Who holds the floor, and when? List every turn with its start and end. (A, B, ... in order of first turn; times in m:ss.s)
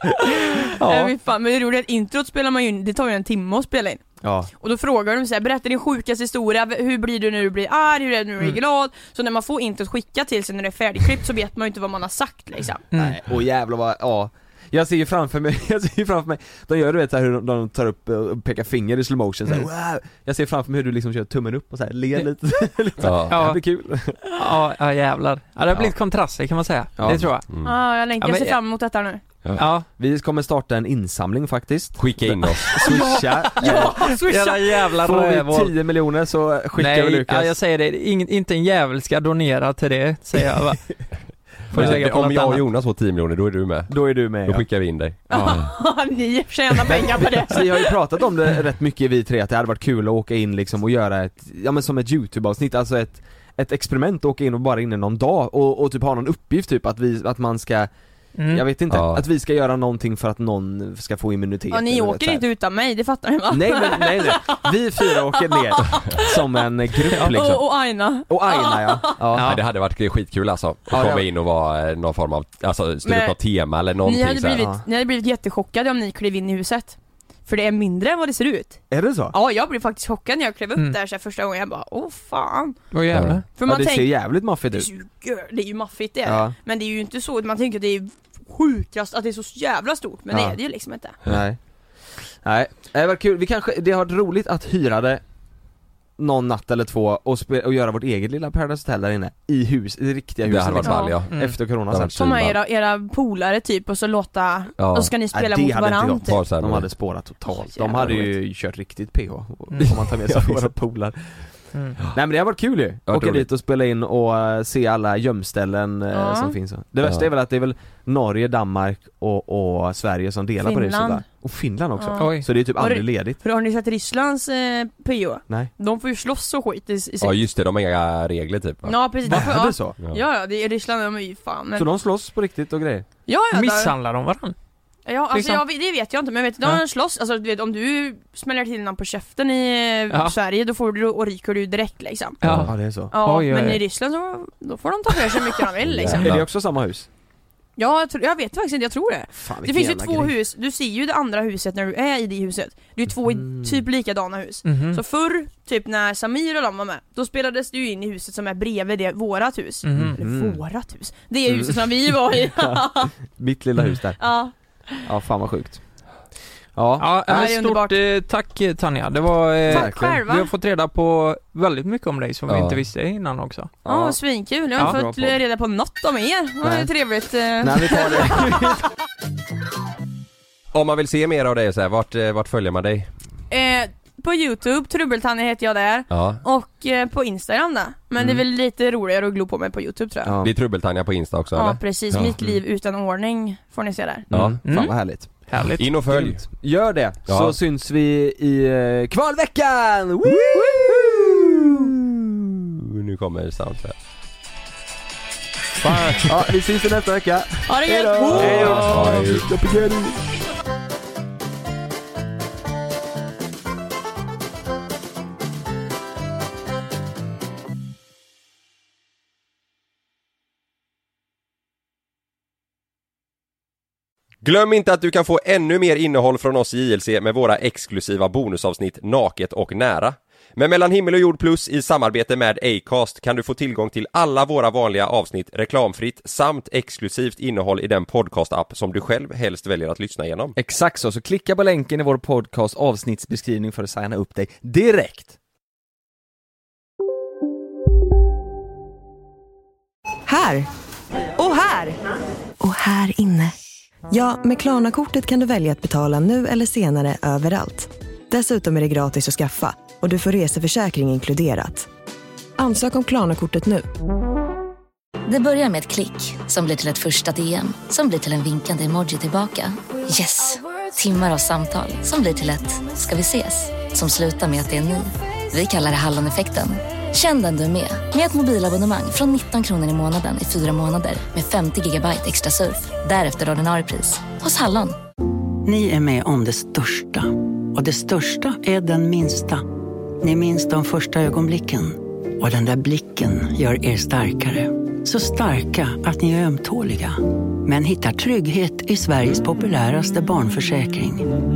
0:00.7-0:01.1 A
0:00.8-0:04.0 B
0:04.2-0:04.5 C
0:04.6-0:12.9 B
0:12.9-0:24.2 C
0:23.0-0:23.5 D
0:23.3-0:23.6 A
0:24.2-0:27.5 A
0:27.0-0:27.3 C
0:27.1-0:27.7 D
0:27.6-0:29.2 B
0:28.2-0:28.6 A
0:29.6-0:29.9 A
0:30.0-0:34.1 C
0:32.0-0:32.8 D
0:32.8-0:35.8 A
0:33.6-0:34.7 B
0:35.0-0:37.5 C
0:36.8-0:40.9 A
0:41.7-0:42.6 A
0:41.7-0:45.7 D
0:41.7-0:42.0 C
0:43.9-0:44.7 C
0:45.3-0:45.8 C
0:45.3-0:48.0 B
0:46.8-0:57.9 C
0:58.4-0:58.6 A
0:58.5-1:02.4 C
0:58.9-0:59.3 D
1:01.7-1:06.3 B
1:03.5-1:07.6 C
1:07.1-1:09.1 B
1:08.3-1:09.5 C
1:09.3-1:09.6 A
1:09.4-1:14.7 D
1:10.9-1:11.3 C
1:13.0-1:13.4 B
1:14.0-1:22.8 B
1:14.5-1:14.8 C
1:18.9-1:19.4 C
1:22.9-1:23.4 A
1:23.1-1:23.4 D
1:23.6-1:31.2 B
1:23.6-1:24.9 C
1:26.2-1:26.5 C
1:31.2-1:31.6 C
1:32.3-1:35.2 C
1:36.2-1:42.4 C
1:40.4-1:42.6 D
1:40.8-1:41.2 B
1:41.3-1:41.6 A
1:42.1-1:46.4 B
1:44.8-1:45.1 D
1:45.3-1:51.5 C
1:46.3-1:46.9 D
1:47.4-1:48.4 B
1:49.9-1:50.7 D
1:52.1-2:03.4 C
1:53.1-1:53.5 D
1:56.1-1:56.6 B
1:57.0-1:57.3 D
2:00.6-2:01.2 B
2:02.0-2:07.4 B
2:02.2-2:02.5 A
2:07.2-2:09.4 D
2:08.8-2:11.9 B
2:09.3-2:10.0 C
2:11.8-2:13.0 C
2:13.3-2:13.9 B
2:13.5-2:14.6 A
2:15.1-2:22.4 B
2:15.3-2:15.6 A
2:22.4-2:23.8 A
2:22.4-2:22.7 D
2:22.6-2:23.1 C
2:23.1-2:26.3 B
2:25.9-2:26.5 D
2:26.1-2:27.1 C
2:27.8-2:43.1 B
2:29.4-2:30.3 C
2:33.3-2:33.8 C
2:34.6-2:35.0 A
2:39.8-2:40.2 A
2:40.0-2:40.6 C
2:41.5-2:44.3 C
2:44.2-2:45.0 B
2:45.0-2:45.8 C
2:46.8-2:47.5 C
2:47.0-2:53.7 A
2:47.3-2:48.0 B
2:49.7-2:50.2 C
2:49.7-2:50.5 B
2:52.5-2:52.8 D
2:53.8-2:54.2 C
2:53.9-2:58.5 B
2:54.8-2:55.4 C
2:56.6-2:56.9 C
2:57.6-2:58.8 C
3:00.7-3:03.1 D
3:03.5-3:10.4 B
3:06.1-3:06.4 D
3:10.2-3:10.5 C
3:10.4-3:12.4 D
3:11.5-3:14.3 B
3:14.3-3:15.3 C
3:14.3-3:14.6 D
3:14.6-3:16.3 A
3:15.8-3:16.5 D
3:16.1-3:21.9 C
3:17.3-3:17.6 D
3:22.9-3:24.0 D
3:25.8-3:26.3 A
3:26.2-3:30.2 C
3:27.7-3:28.9 B
3:28.3-3:29.3 A
3:28.5-3:29.5 D
3:44.4-4:00.6 D
4:00.6-4:05.4 C
4:10.3-4:10.7 E
4:11.4-4:12.0 E
4:12.6-4:13.5 E
4:14.1-4:21.9 E
4:22.6-4:23.9 E
4:25.3-4:45.0 F
4:45.6-4:49.7 G
4:50.2-5:01.3 G